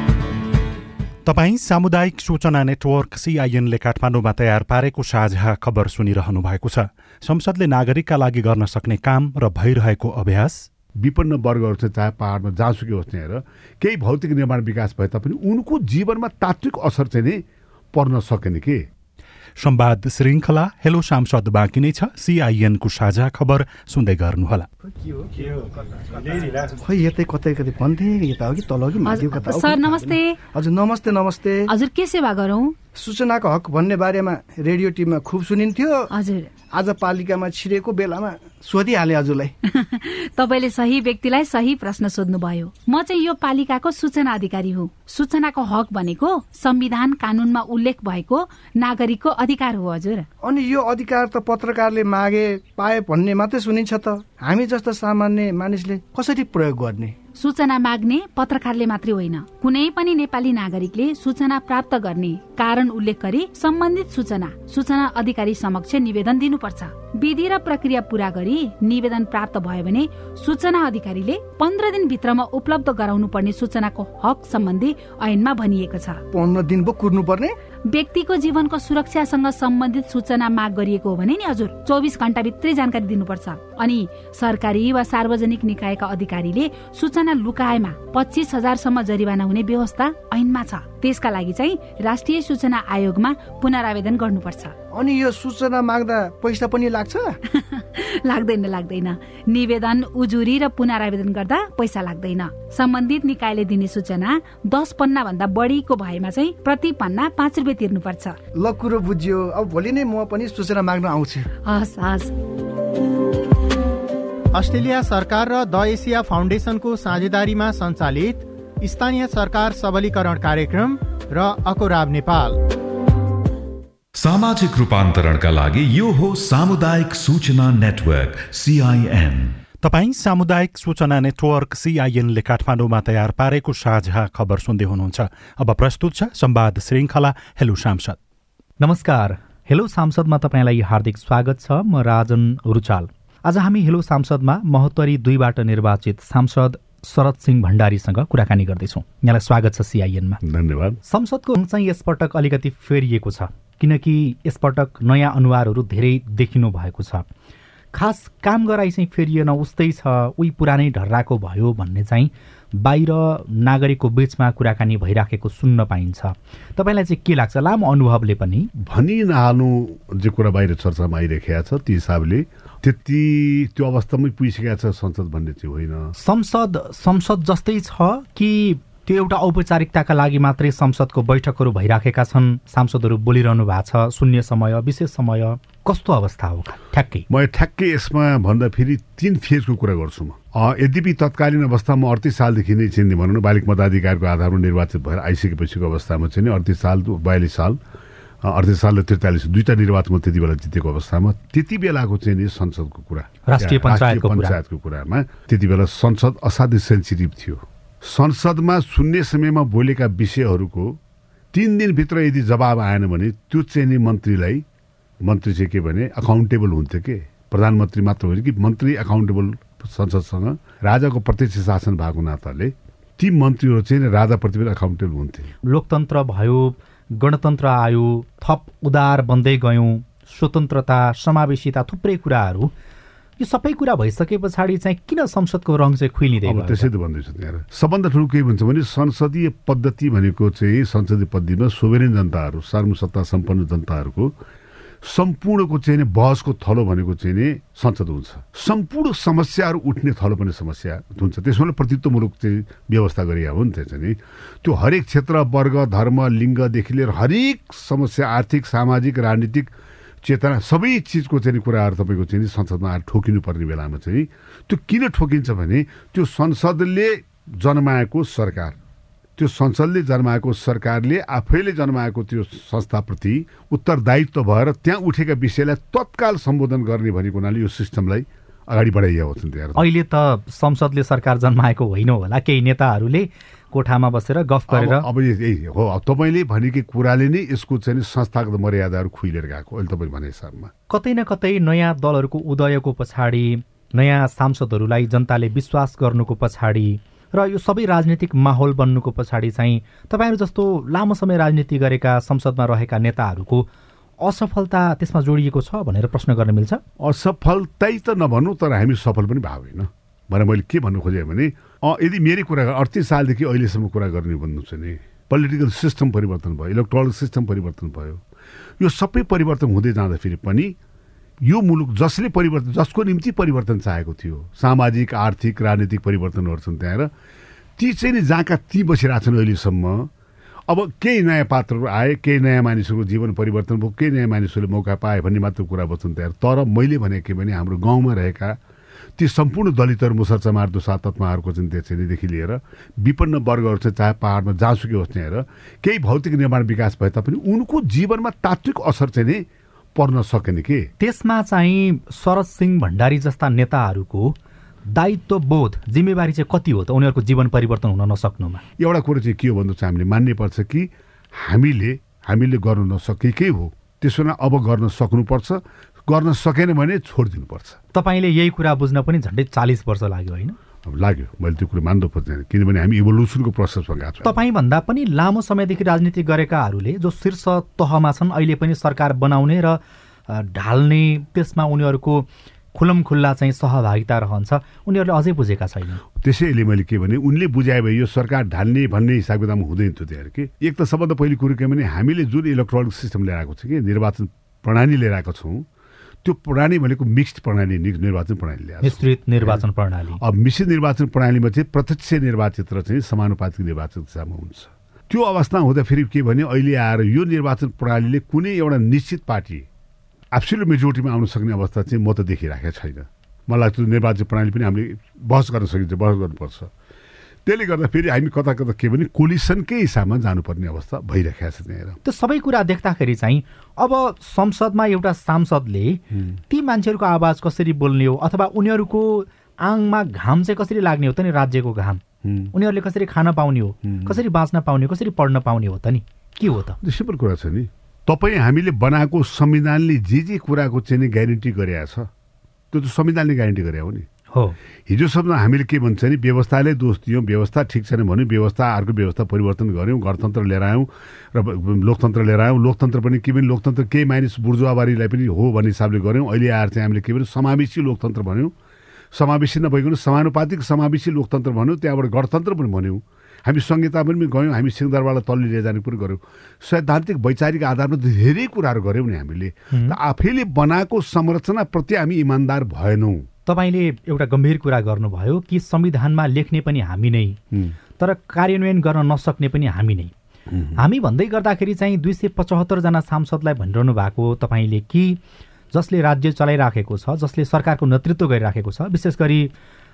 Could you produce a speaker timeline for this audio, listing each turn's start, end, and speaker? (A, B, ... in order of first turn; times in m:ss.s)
0:01.2-0:10.7 A
0:11.0-0:17.4 B
0:17.9-0:18.8 B
0:19.6-0:24.7 A
0:24.8-0:31.6 C
0:29.0-0:30.3 D
0:31.7-0:32.8 D
0:32.9-0:36.1 C
0:36.1-0:36.5 D
0:36.7-0:39.5 C
0:39.7-0:50.3 D
0:50.4-0:57.2 C
0:57.4-1:16.2 D
1:16.3-1:17.6 C
1:17.9-1:34.7 D
1:34.9-1:37.4 C
1:37.5-1:48.4 D
1:48.5-1:51.5 C
1:51.7-1:52.2 D
1:54.5-2:02.6 E
2:04.2-2:09.6 F
2:09.8-2:18.2 A
2:18.8-2:30.4 G
2:30.4-2:31.0 B
2:31.0-2:37.2 G
2:37.9-2:48.7 G
2:48.8-2:56.1 B
2:56.2-3:07.2 G
3:07.3-3:17.8 B
3:18.4-3:31.0 B
3:23.4-3:24.6 G
3:31.5-3:34.6 B
3:35.2-3:45.5 B
3:45.6-3:52.7 G
3:53.4-3:56.9 G
3:56.4-4:04.3 B
4:05.0-4:19.7 B
4:20.2-4:28.8 B
4:29.4-4:39.8 B
4:39.8-4:45.0 G
4:44.7-4:50.7 B
4:50.9-5:03.7 G
5:04.2-5:06.8 G
5:07.0-5:18.2 B
5:18.8-5:20.8 B
5:21.4-5:27.1 B
5:27.8-5:30.1 B
5:30.7-5:38.6 B
5:39.2-5:50.9 B
5:51.0-5:54.4 G
5:54.9-5:58.6 G
5:58.8-6:07.8 B
6:07.9-6:10.6 G
6:10.8-6:14.3 B
6:14.2-6:26.0 G
6:26.2-6:35.7 B
6:36.2-6:39.6 B
6:38.8-6:40.2 G
6:40.2-6:49.6 B
6:50.3-6:56.7 B
6:57.4-7:02.0 B
7:02.0-7:12.0 G
7:12.2-7:12.5 B
7:12.5-7:16.8 G
7:13.8-7:14.2 B
7:16.8-7:22.1 B
7:22.7-7:24.0 B
7:24.9-7:38.5 B
7:39.1-7:53.2 B
7:49.7-7:50.0 G
7:53.4-7:57.4 G
7:58.0-8:00.1 G
8:00.5-8:00.8 B
8:00.8-8:05.2 G
8:05.7-8:09.5 G